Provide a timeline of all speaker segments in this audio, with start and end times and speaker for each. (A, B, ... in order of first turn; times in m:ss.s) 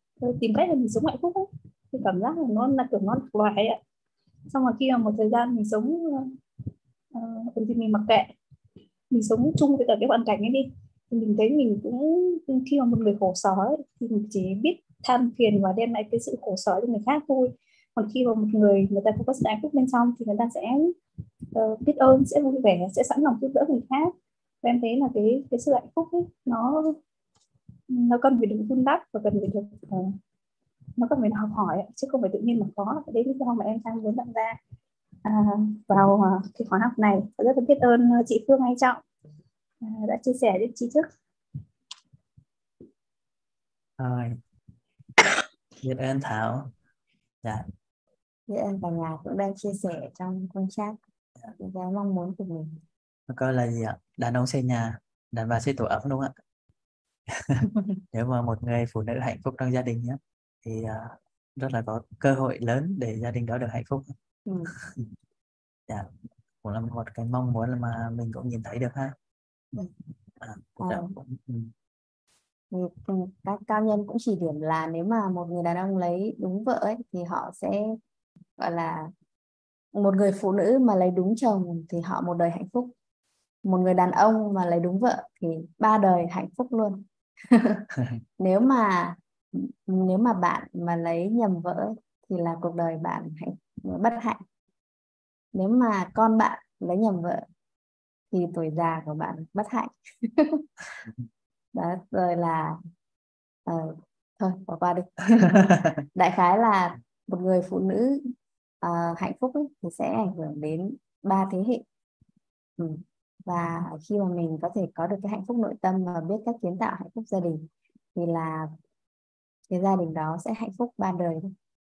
0:00.2-0:03.8 A
0:04.5-0:06.4 A
0:07.1-0:08.3 A
0:09.1-0:20.9 A
0:21.5-0:27.0 A
0:27.9-0:30.2 A
0:31.0-0:34.6 A
0:35.2-0:39.0 A
0:39.8-0:41.1 A
0:44.0-0:44.4 B
0:45.8-0:46.7 B
0:48.5-0:51.0 C
0:51.6-0:52.8 C
0:53.3-0:56.3 B
0:57.3-1:04.1 B
1:04.4-1:04.7 C
1:04.7-1:05.1 B
1:06.6-1:09.1 B
1:10.4-1:11.7 B
1:10.8-1:11.1 C
1:12.7-1:18.0 C
1:18.6-1:19.1 C
1:19.9-1:22.9 C
1:23.6-1:27.8 C
1:28.4-1:34.4 C
1:35.5-1:37.4 C
1:38.3-1:40.7 C
1:41.7-1:42.8 C
1:43.6-1:48.2 C
1:48.8-1:51.8 C
1:52.8-1:58.7 C
1:59.7-2:01.5 C